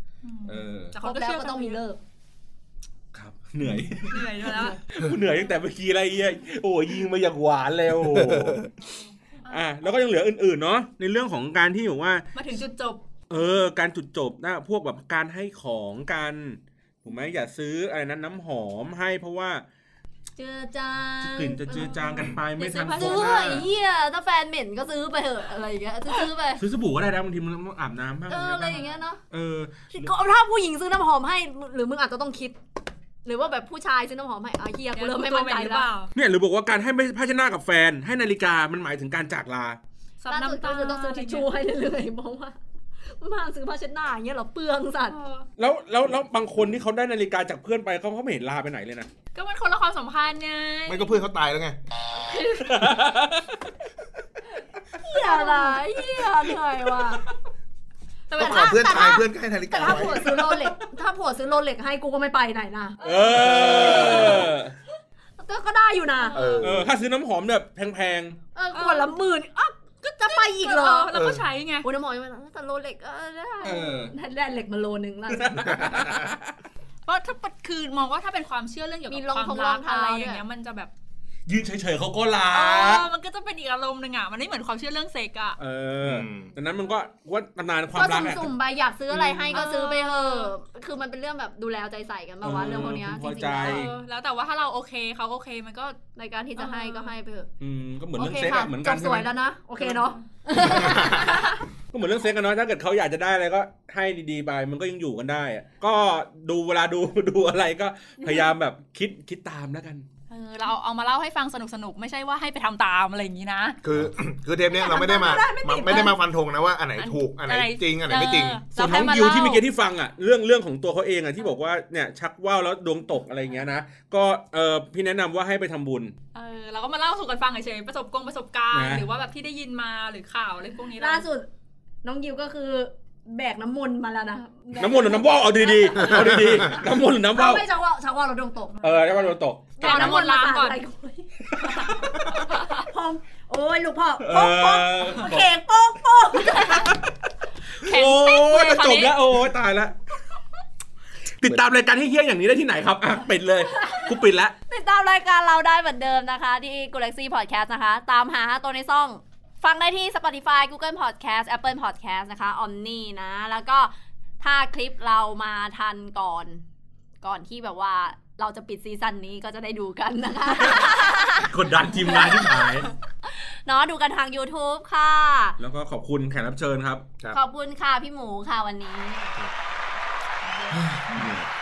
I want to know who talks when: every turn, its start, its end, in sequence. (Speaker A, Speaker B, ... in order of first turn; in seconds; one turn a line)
Speaker A: 0.2-1.8
Speaker B: 0.5-0.9
Speaker C: 1.0-2.0
Speaker B: 3.1-8.7
Speaker A: 3.7-4.8
Speaker D: 8.0-8.7
Speaker A: 8.8-9.6
Speaker B: 9.5-12.2
Speaker A: 12.3-13.0
Speaker B: 13.3-19.6
Speaker C: 20.4-22.2
Speaker B: 21.2-23.7
Speaker A: 21.8-23.6
Speaker C: 22.9-26.6
Speaker B: 26.6-30.1
Speaker C: 28.3-29.2
Speaker C: 29.9-32.6
Speaker C: 33.2-35.9
Speaker A: 34.9-36.1
Speaker B: 36.1-39.8
Speaker A: 40.2-41.5
Speaker C: 40.3-42.5
Speaker C: 43.2-45.2
Speaker A: 45.1-45.5
Speaker B: 45.6-49.1
Speaker A: 49.3-51.2
Speaker D: 50.9-51.8
Speaker C: 52.1-53.0
Speaker B: 52.6-53.6
Speaker C: 55.0-57.2
Speaker A: 55.1-55.8
Speaker A: 58.3-59.1
Speaker C: 58.3-64.5
Speaker D: 58.4-60.3
Speaker B: 60.4-60.7
Speaker B: 63.0-64.7
Speaker D: 63.4-64.3
Speaker C: 65.4-66.3
Speaker A: 66.2-66.7
Speaker D: 66.3-66.9
Speaker B: 66.6-68.4
Speaker C: 68.5-71.1
Speaker A: 68.7-69.2
Speaker A: 70.0-71.9
Speaker D: 71.1-71.4
Speaker C: 71.8-75.9
Speaker B: 73.6-74.1
Speaker B: 75.3-76.5
Speaker D: 75.8-76.1
Speaker A: 77.0-80.9
Speaker C: 79.1-80.4
Speaker B: 81.5-83.0
Speaker A: 82.5-85.6
Speaker B: 85.6-88.5
Speaker D: 86.0-86.5
Speaker C: 87.9-93.9
Speaker B: 89.1-89.7
Speaker A: 89.5-90.5
Speaker B: 92.4-93.9
Speaker A: 93.6-96.0
Speaker C: 96.2-97.5
Speaker A: 96.6-97.1
Speaker B: 97.6-99.3
Speaker C: 98.2-101.6
Speaker A: 99.8-100.2
Speaker B: 101.9-110.0
Speaker A: 110.3-113.8
Speaker D: 113.8-118.6
Speaker C: 114.7-116.1
Speaker A: 117.0-119.6
Speaker B: 118.7-126.1
Speaker A: 126.3-131.2
Speaker B: 128.7-129.0
Speaker C: 131.0-131.5
Speaker C: 132.0-146.9
Speaker B: 134.8-137.6
Speaker B: 138.8-140.2
Speaker A: 139.8-140.8
Speaker B: 141.5-142.1
Speaker B: 144.2-145.5
Speaker B: 146.6-147.1
Speaker A: 147.8-149.2
Speaker B: 147.8-149.9
Speaker B: 151.4-154.5
Speaker C: 154.7-166.6
Speaker C: 167.2-175.6
Speaker B: 170.8-172.9
Speaker B: 175.6-177.1
Speaker C: 177.3-179.4
Speaker A: 180.5-181.3
Speaker B: 180.7-181.5